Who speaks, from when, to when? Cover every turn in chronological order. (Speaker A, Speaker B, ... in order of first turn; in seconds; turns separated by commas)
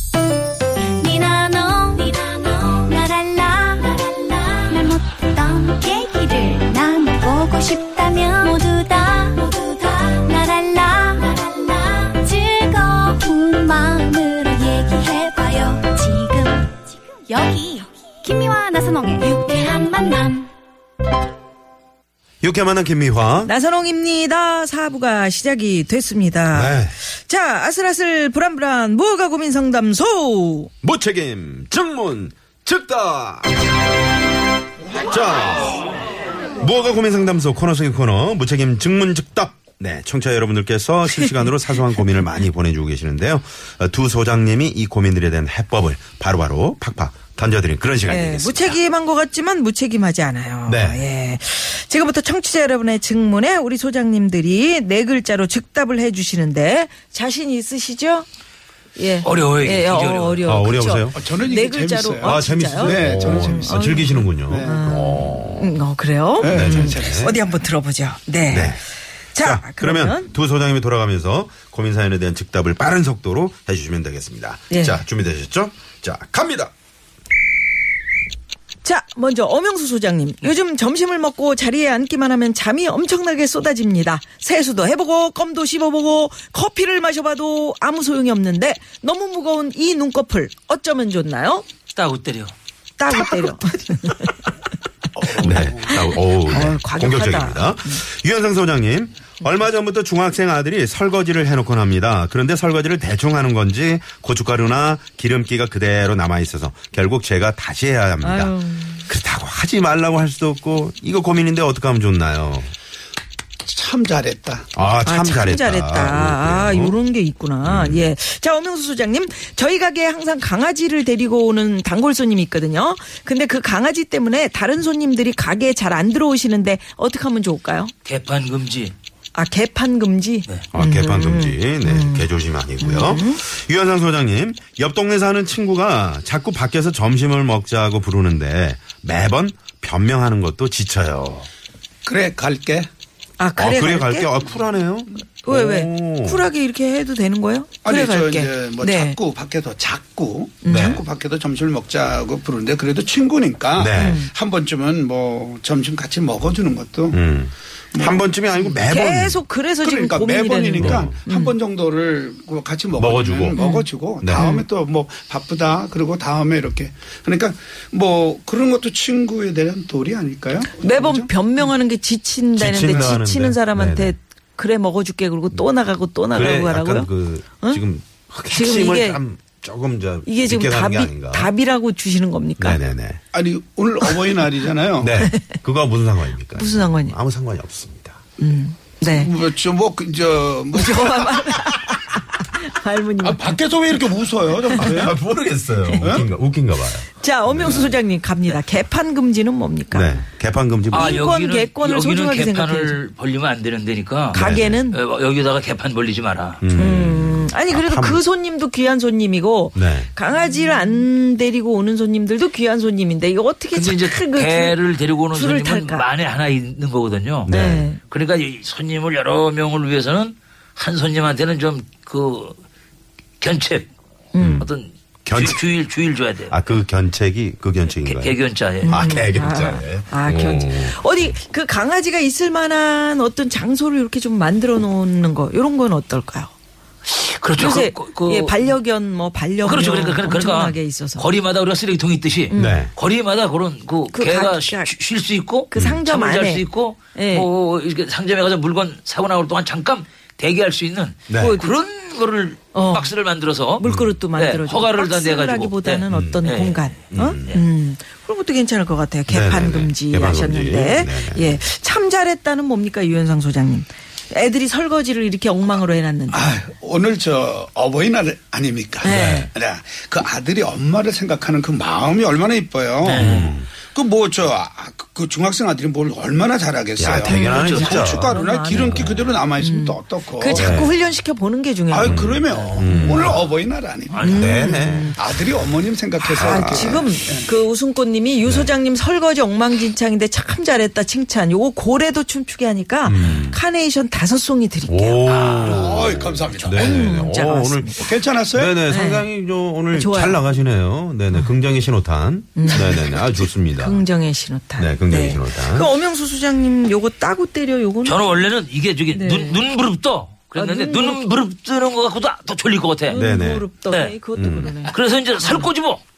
Speaker A: 0.8-20.5, Speaker B: 22.4-23.5, Speaker C: 23.4-30.7, Speaker B: 26.5-26.9, Speaker B: 30.8-33.6, Speaker B: 34.9-35.9, Speaker B: 36.6-48.8, Speaker C: 41.1-41.5, Speaker C: 48.1-58.3, Speaker B: 50.7-51.1, Speaker C: 59.0-68.8, Speaker D: 59.2-60.5, Speaker B: 60.4-61.2, Speaker E: 61.1-65.1, Speaker B: 62.2-65.8, Speaker E: 66.4-67.3, Speaker B: 66.4-67.4, Speaker B: 68.5-68.8, Speaker C: 69.3-70.3, Speaker B: 69.4-76.7, Speaker C: 74.7-75.0, Speaker C: 78.8-91.7, Speaker D: 92.0-92.5, Speaker C: 93.0-94.4, Speaker E: 95.2-96.0, Speaker C: 95.3-98.0, Speaker B: 95.4-112.7, Speaker C: 108.2-109.1, Speaker E: 113.7-114.7, Speaker B: 114.7-117.0, Speaker C: 115.0-127.9, Speaker B: 117.6-118.1, Speaker D: 128.1-128.9, Speaker C: 129.3-132.3, Speaker B: 130.7-141.5, Speaker C: 132.8-133.4, Speaker E: 142.1-142.9, Speaker C: 143.4-144.3, Speaker B: 143.6-146.5, Speaker C: 145.4-149.2, Speaker E: 147.8-157.2, Speaker C: 150.6-151.0, Speaker B: 150.7-151.0, Speaker B: 153.8-154.3, Speaker C: 153.9-154.3, Speaker B: 157.1-159.4, Speaker E: 157.9-158.2, Speaker C: 158.7-161.6, Speaker E: 159.8-171.3, Speaker B: 160.8-161.1, Speaker B: 163.0-163.6, Speaker C: 163.6-164.6, Speaker B: 164.2-164.5, Speaker C: 170.8-177.8, Speaker B: 172.6-174.2, Speaker B: 176.3-181.5, Speaker C: 178.5-179.2, Speaker C: 180.2-182.8, Speaker B: 182.6-183.2, Speaker E: 183.3-185.2, Speaker B: 185.0-188.2, Speaker C: 186.6-187.2, Speaker C: 188.4-189.3, Speaker E: 189.0-191.6, Speaker C: 190.7-194.0, Speaker E: 193.2-195.2, Speaker C: 194.7-195.1, Speaker B: 194.8-198.0, Speaker C: 195.9-196.1, Speaker E: 196.0-196.3, Speaker C: 197.2-200.2, Speaker B: 199.9-201.2, Speaker C: 200.9-203.0, Speaker D: 200.9-206.7, Speaker C: 204.3-205.0, Speaker B: 204.3-204.9, Speaker B: 206.6-208.2, Speaker C: 206.7-214.8, Speaker B: 209.8-210.1, Speaker D: 213.7-217.5, Speaker C: 215.3-216.1, Speaker B: 217.4-217.9, Speaker C: 217.5-218.0, Speaker D: 218.1-222.6, Speaker D: 223.4-223.9, Speaker C: 224.3-224.7, Speaker B: 224.4-224.7, Speaker D: 224.6-226.6, Speaker B: 225.3-225.6, Speaker B: 226.5-231.3, Speaker D: 228.0-229.2, Speaker C: 228.8-236.5, Speaker D: 237.1-238.7, Speaker C: 237.6-241.3, Speaker D: 239.6-257.6, Speaker C: 242.5-242.9, Speaker B: 242.6-242.9, Speaker C: 244.1-244.9, Speaker C: 245.7-247.5, Speaker B: 245.8-246.0, Speaker B: 251.3-251.6, Speaker C: 251.3-251.8, Speaker C: 252.7-253.2, Speaker C: 253.7-266.5, Speaker B: 253.8-254.2, Speaker B: 256.1-256.4, Speaker B: 257.1-257.6, Speaker B: 259.3-261.6, Speaker E: 266.3-280.8, Speaker C: 269.0-269.5, Speaker B: 269.0-269.5, Speaker D: 273.0-273.6, Speaker B: 273.1-273.7, Speaker B: 277.0-279.2, Speaker C: 277.1-282.2, Speaker D: 277.5-277.9, Speaker B: 280.5-281.0, Speaker E: 281.9-284.3, Speaker B: 282.0-283.4, Speaker D: 282.5-282.9, Speaker C: 282.8-283.4, Speaker D: 284.1-284.5, Speaker C: 284.2-285.2, Speaker B: 284.3-285.2, Speaker E: 285.1-287.5, Speaker B: 286.3-287.1, Speaker C: 286.3-295.3, Speaker B: 288.4-288.7, Speaker B: 293.0-293.6, Speaker B: 294.9-304.0, Speaker D: 295.2-296.1, Speaker E: 295.6-297.1, Speaker C: 296.7-298.1, Speaker E: 298.0-298.8, Speaker C: 298.9-299.3, Speaker C: 299.9-300.5, Speaker C: 302.6-308.3, Speaker B: 304.8-305.9, Speaker D: 308.1-313.2, Speaker C: 309.1-309.6, Speaker C: 310.6-311.2, Speaker C: 313.1-315.7, Speaker B: 313.1-313.7, Speaker B: 314.4-314.8, Speaker D: 314.9-316.0